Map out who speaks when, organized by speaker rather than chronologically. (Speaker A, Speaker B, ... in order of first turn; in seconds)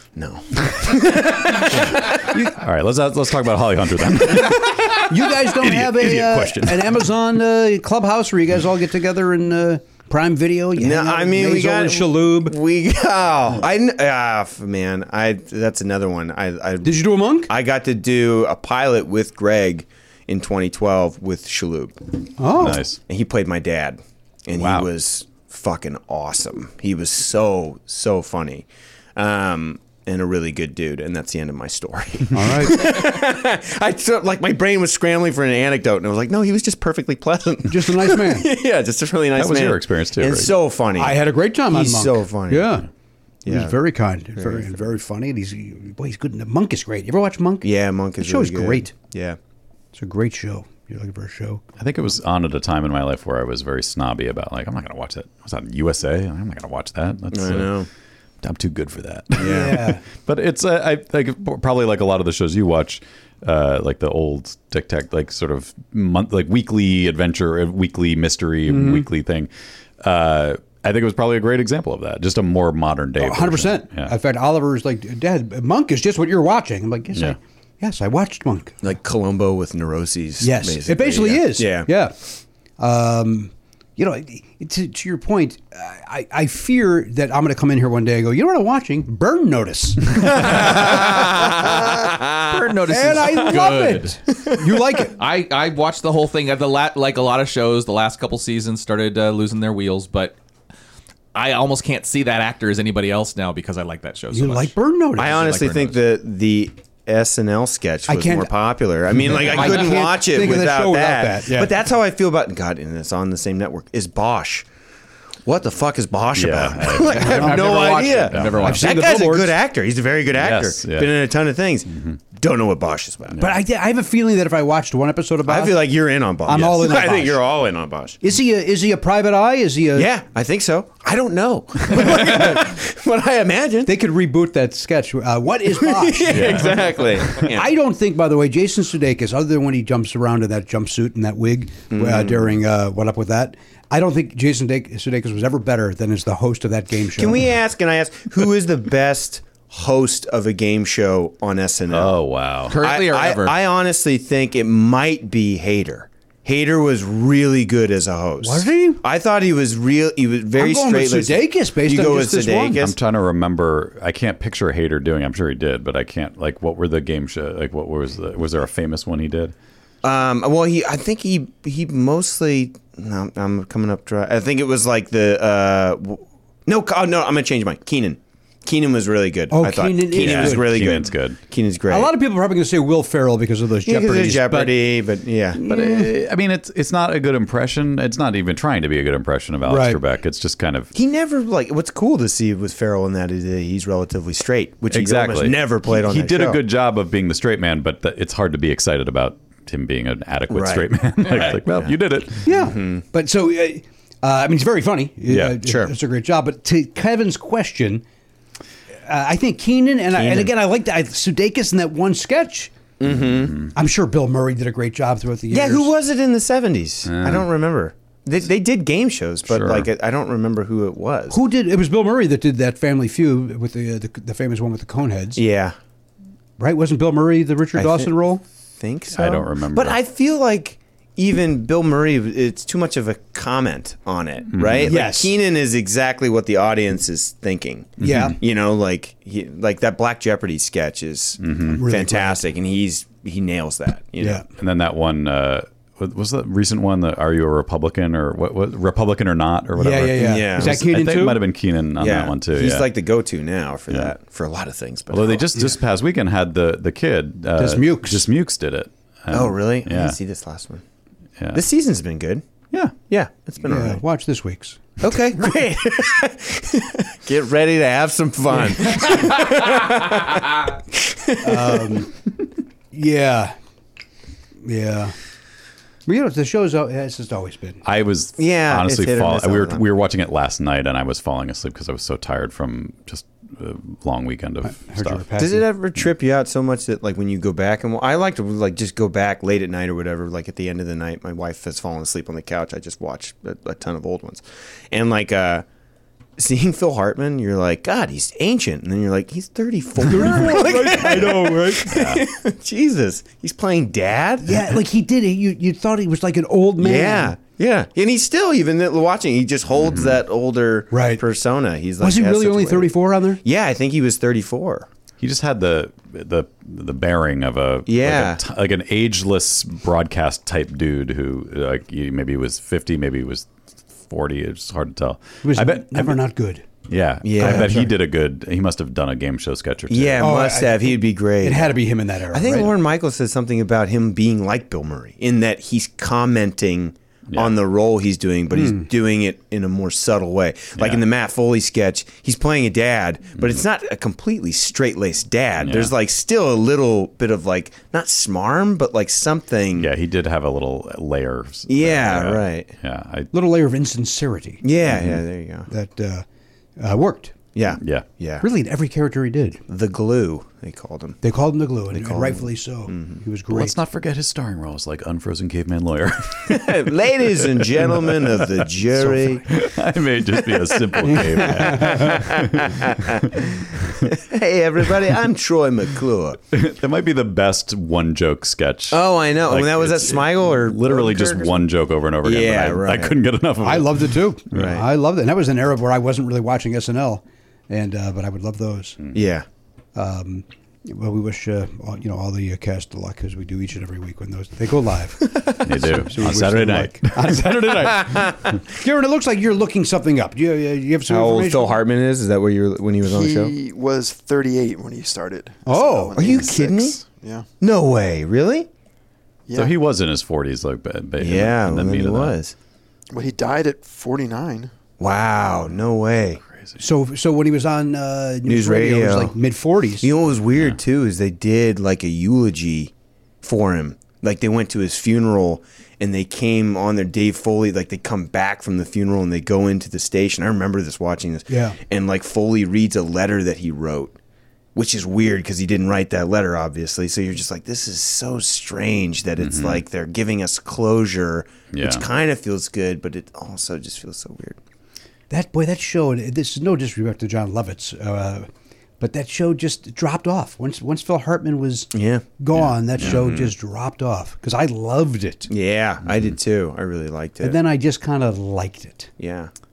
Speaker A: 0.1-2.2, 10.8-22.0, 22.6-42.8, 43.4-43.8, 44.4-44.7, 47.6-49.4, 57.3-57.9, 59.4-59.9, 78.8-81.9, 90.4-92.5, 105.2-114.7, 115.4-123.4, 125.4-128.2, 129.9-133.9, 135.8-137.7, 141.9-142.5, 147.1-152.2, 152.8-162.9, 170.0-182.1, 183.8-185.6, 190.9-196.6, 200.5-201.9, 202.5-203.0, 205.6-205.9, 210.2-210.5, 213.0-213.6, 215.5-221.4, 225.3-225.8, 227.8-228.1, 228.8-244.4, 250.2-250.8, 252.0-255.6, 259.3-260.8, 261.5-262.4, 263.1-264.0, 265.0-272.0, 278.4-279.8, 285.4-295.6, 296.4-304.7, 306.8-312.9, 313.4-314.9, 317.9-318.4, 327.2-327.9, 329.9-331.8, 332.3-349.9, 351.7-352.7, 354.6-355.7, 357.5-358.5, 359.7-361.2, 361.9-363.2, 366.4-369.5, 371.1-376.4, 378.9-381.6, 382.2-383.2, 384.5-384.8, 389.1-389.4, 398.0-398.4, 401.1-403.6, 406.1-407.0, 407.6-408.7, 411.2-412.5, 415.0-416.4, 418.4-419.3, 420.0-434.2, 434.7-444.6, 451.9-452.4, 453.0-453.5, 455.5-457.6, 459.2-459.5
Speaker B: 2.4-6.9, 22.6-23.0, 24.6-24.9, 39.4-40.5, 51.8-57.7, 58.4-59.5, 60.1-69.5, 70.0-74.1, 116.3-118.8, 120.4-121.1, 136.3-136.8, 151.9-152.8, 162.8-169.5, 180.2-181.4, 185.6-190.9, 194.9-202.4, 205.3-205.6, 217.1-217.4, 219.5-219.9, 229.1-230.0, 234.5-234.9, 238.0-238.3, 241.4-241.8, 244.5-252.9, 255.1-260.2, 277.8-285.2, 301.9-302.2, 309.8-310.1, 315.2-323.5, 324.1-326.2, 326.9-330.2, 340.8-341.0, 345.6-345.9, 349.8-353.3, 354.8-355.2, 357.8-358.1, 363.5-366.7, 367.8-368.1, 369.4-374.1, 376.5-384.6, 395.6-397.7, 409.5-412.4, 439.4-439.8, 441.7-442.0
Speaker C: 4.2-12.6, 16.8-17.5, 22.4-22.8, 32.3-32.9, 37.7-38.5, 41.0-42.9, 43.5-48.9, 49.9-51.6, 59.4-60.0, 68.7-69.1, 73.2-78.8, 80.4-82.2, 82.8-91.8, 92.8-95.2, 104.3-105.5, 108.1-108.5, 109.1-111.7, 117.2-117.8, 118.6-119.5, 123.4-125.8, 126.5-127.4, 128.2-130.1, 133.8-147.5, 158.4-159.0, 160.6-162.8, 179.5-180.7, 181.9-184.8, 185.5-186.1, 189.7-190.0, 202.4-208.0, 209.0-212.7, 213.7-215.9, 221.3-225.4, 226.6-228.4, 234.8-235.3, 238.0-238.4, 241.7-242.4, 244.2-244.4, 249.8-251.4, 257.6-258.2, 263.6-265.0, 271.4-272.1, 272.9-273.5, 274.6-275.1, 276.1-277.8, 284.6-285.7, 300.0-302.0, 304.4-307.4, 310.9-311.2, 312.0-313.4, 325.4-326.6, 327.4-327.9, 330.2-332.8, 338.5-338.9, 353.3-354.6, 355.7-356.2, 356.8-357.4, 358.4-359.6, 361.2-363.8, 369.0-369.4, 371.0-372.2, 383.6-389.0, 389.9-401.8, 405.6-406.2, 416.8-420.1, 431.5-431.8, 445.3-448.5, 449.0-455.5, 457.4-459.1
Speaker D: 90.4-91.8, 92.4-94.2, 95.1-100.3, 101.3-106.0, 117.1-118.9, 152.7-153.6
Speaker E: 403.0-407.4, 409.5-409.7, 413.1-414.7